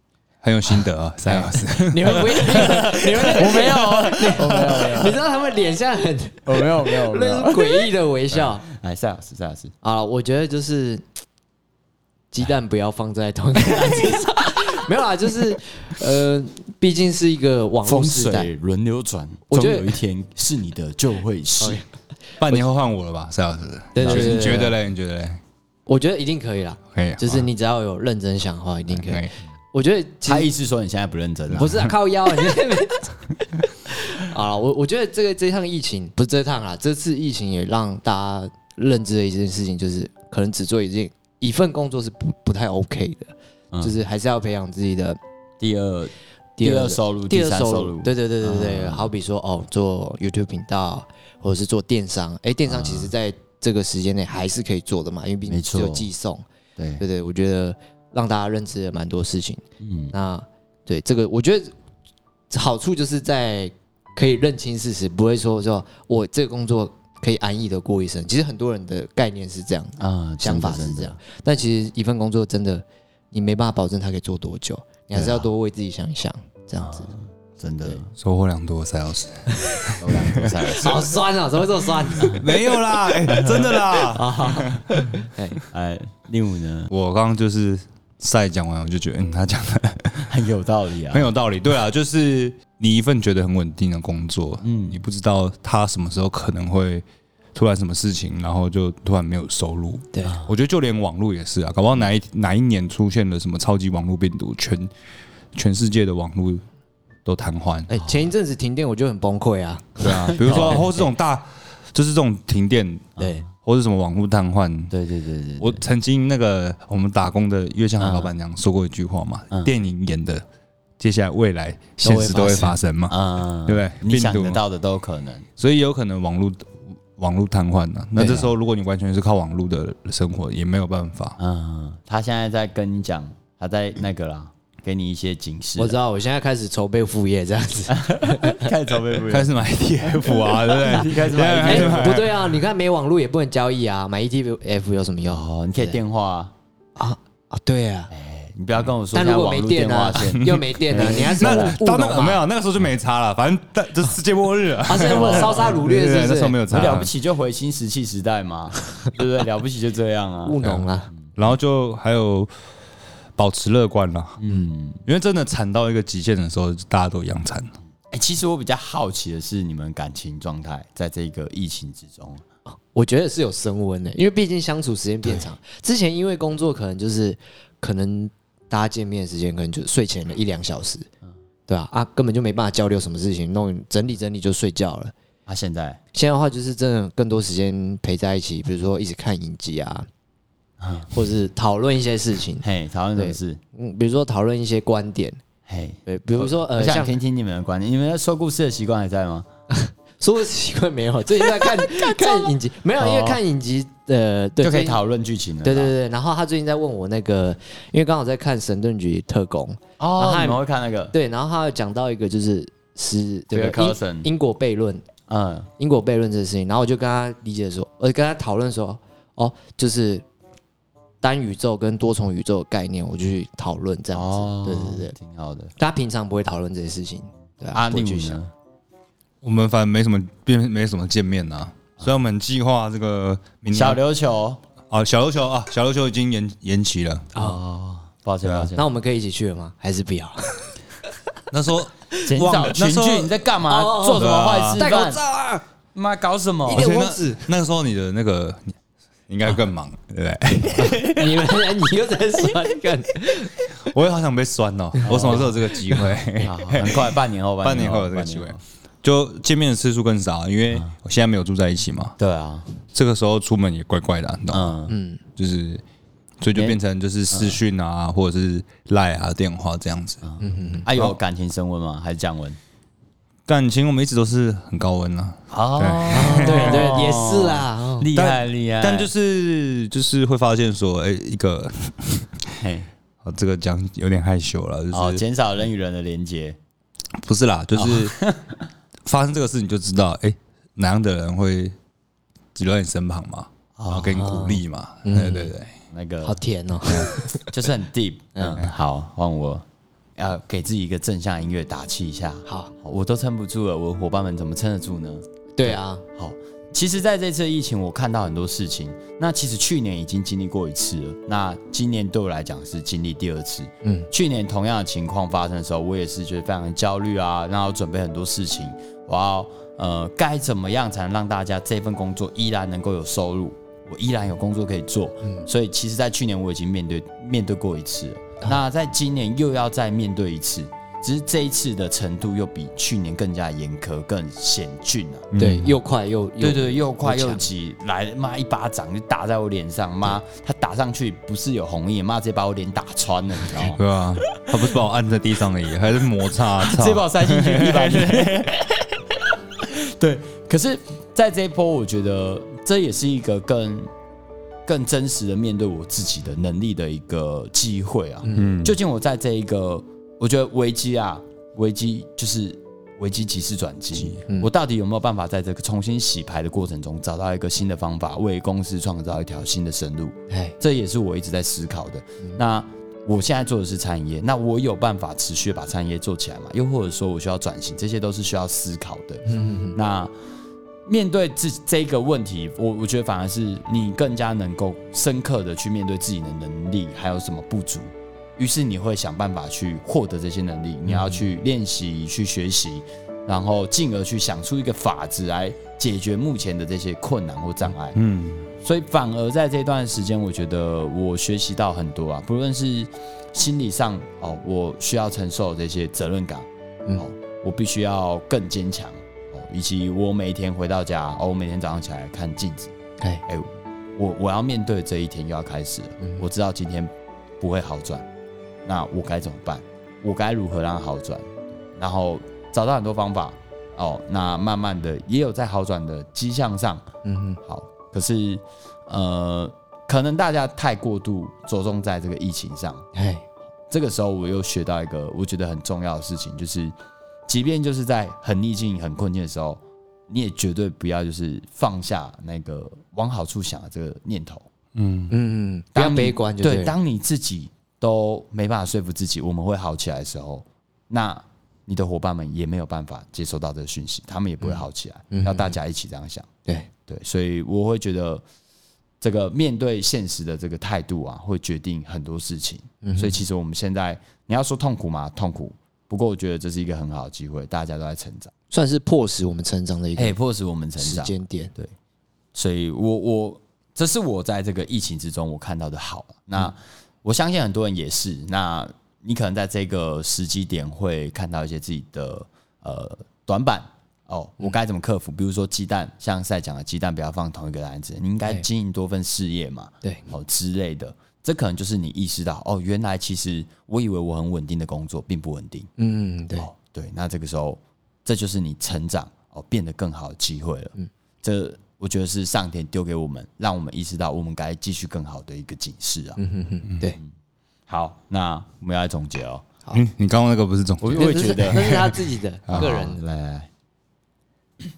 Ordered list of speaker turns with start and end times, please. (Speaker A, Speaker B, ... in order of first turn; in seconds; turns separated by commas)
Speaker A: 0.4-4.8, Speaker B: 1.2-8.6, Speaker C: 2.5-5.2, Speaker C: 6.5-9.7, Speaker B: 9.8-11.0, Speaker B: 12.3-18.5, Speaker C: 17.8-21.8, Speaker B: 19.5-20.0, Speaker A: 22.4-25.4, Speaker B: 23.9-24.8, Speaker C: 24.0-24.6, Speaker B: 25.9-30.5, Speaker A: 26.9-27.5, Speaker A: 28.9-29.3, Speaker C: 30.3-31.9, Speaker B: 31.5-45.2, Speaker C: 45.6-49.1, Speaker B: 46.6-56.5, Speaker C: 52.7-53.1, Speaker C: 55.5-56.1, Speaker C: 56.8-57.0, Speaker B: 57.0-61.7, Speaker C: 59.8-60.1, Speaker B: 62.5-77.1, Speaker C: 70.0-71.2, Speaker C: 75.1-75.5, Speaker C: 76.8-78.1, Speaker A: 78.2-80.7, Speaker C: 80.0-81.2, Speaker B: 80.7-82.5, Speaker A: 82.2-85.1, Speaker C: 83.3-83.8, Speaker B: 84.0-85.6, Speaker C: 85.7-86.9, Speaker A: 86.9-90.4, Speaker C: 90.3-91.3, Speaker A: 91.1-104.9, Speaker C: 94.6-95.0, Speaker B: 100.1-100.4, Speaker C: 100.2-100.5, Speaker A: 105.5-106.6, Speaker A: 107.2-107.9, Speaker B: 107.9-111.1, Speaker C: 108.0-108.2, Speaker A: 110.0-114.9, Speaker C: 110.3-110.9, Speaker B: 113.2-113.4, Speaker C: 114.9-115.8, Speaker A: 115.6-120.5, Speaker C: 118.0-118.3, Speaker A: 121.0-124.6, Speaker B: 122.0-122.8, Speaker C: 123.1-125.5, Speaker A: 125.6-131.4, Speaker B: 128.2-128.5, Speaker C: 131.4-136.0, Speaker B: 135.8-138.7, Speaker C: 137.9-139.6, Speaker A: 139.3-142.3, Speaker C: 140.7-142.2, Speaker B: 141.6-146.0, Speaker C: 145.3-146.5, Speaker B: 147.0-148.1, Speaker C: 148.1-151.7, Speaker B: 149.1-152.4, Speaker A: 151.2-157.1, Speaker B: 154.8-157.0, Speaker C: 155.0-155.8, Speaker C: 156.7-160.6, Speaker B: 160.5-161.1, Speaker A: 160.6-162.5, Speaker A: 163.4-164.4, Speaker C: 164.4-165.0, Speaker A: 165.1-167.7, Speaker C: 168.1-172.4, Speaker B: 172.9-181.1, Speaker B: 181.7-185.1, Speaker C: 185.5-186.0, Speaker B: 186.1-190.1, Speaker C: 190.8-191.1, Speaker B: 191.1-192.7, Speaker C: 192.6-193.6, Speaker B: 193.2-195.4, Speaker C: 195.7-199.5, Speaker B: 196.1-197.2, Speaker B: 199.7-205.0, Speaker C: 201.5-203.4, Speaker C: 204.6-205.9, Speaker B: 205.6-215.0, Speaker C: 210.0-211.1, Speaker C: 213.5-214.3, Speaker C: 215.3-215.7, Speaker B: 215.8-220.2, Speaker B: 221.2-225.2, Speaker C: 224.1-225.8, Speaker B: 225.8-228.4, Speaker C: 227.7-228.5, Speaker A: 229.4-234.0, Speaker C: 233.7-234.6, Speaker A: 234.9-237.3, Speaker C: 237.4-238.9, Speaker A: 238.4-238.7, Speaker B: 238.8-240.7, Speaker A: 241.5-243.3, Speaker C: 242.3-245.2, Speaker B: 243.7-245.6, Speaker A: 244.2-244.8, Speaker C: 245.9-246.9, Speaker A: 246.7-248.7, Speaker B: 246.7-247.5, Speaker A: 249.3-251.4, Speaker B: 251.0-253.5, Speaker A: 253.8-262.2, Speaker C: 255.0-255.5, Speaker C: 256.4-258.6, Speaker C: 262.2-262.7, Speaker A: 262.9-264.8, Speaker C: 264.5-264.9, Speaker B: 264.9-265.2, Speaker A: 265.4-265.8, Speaker A: 266.4-270.2, Speaker C: 267.3-267.6, Speaker C: 270.2-272.6, Speaker B: 270.4-270.9, Speaker A: 273.5-277.0, Speaker C: 275.5-279.1, Speaker B: 276.1-278.1, Speaker A: 278.1-282.4, Speaker C: 282.6-282.9, Speaker A: 283.2-285.2, Speaker C: 284.9-286.6, Speaker A: 287.1-288.2, Speaker C: 287.8-288.5, Speaker A: 289.1-291.7, Speaker A: 292.6-295.8, Speaker C: 293.8-294.2, Speaker B: 294.1-295.5, Speaker C: 295.9-296.4, Speaker B: 296.2-297.5, Speaker C: 297.5-299.6, Speaker B: 298.4-298.6, Speaker C: 300.2-335.3, Speaker B: 302.5-302.7, Speaker B: 305.6-306.0, Speaker A: 335.3-335.8, Speaker B: 335.4-337.4, Speaker C: 336.4-343.8, Speaker A: 343.6-348.5, Speaker C: 344.3-344.8, Speaker C: 346.6-353.9, Speaker C: 354.7-380.1, Speaker A: 358.3-358.8, Speaker B: 370.3-370.6, Speaker B: 379.3-379.8, Speaker C: 380.9-398.0, Speaker B: 390.9-391.2, Speaker A: 397.9-398.5, Speaker C: 398.6-412.7, Speaker C: 413.3-418.1, Speaker C: 418.6-426.9, Speaker B: 427.0-427.4, Speaker C: 427.5-432.9, Speaker B: 432.9-433.2, Speaker C: 433.7-436.7, Speaker C: 437.3-444.5, Speaker A: 444.8-445.1, Speaker B: 445.1-446.7, Speaker C: 445.8-456.3, Speaker B: 454.4-455.5, Speaker C: 456.9-458.2, Speaker C: 459.0-468.3, Speaker B: 462.8-463.2, Speaker B: 468.5-470.1, Speaker C: 470.0-471.7, Speaker B: 470.8-471.5, Speaker C: 472.3-495.7, Speaker B: 495.8-496.5, Speaker C: 496.4-506.2, Speaker B: 506.2-507.0, Speaker C: 507.7-509.5, Speaker A: 509.7-511.8, Speaker C: 510.8-512.0, Speaker B: 510.9-513.0, Speaker A: 512.5-512.8, Speaker C: 512.5-513.5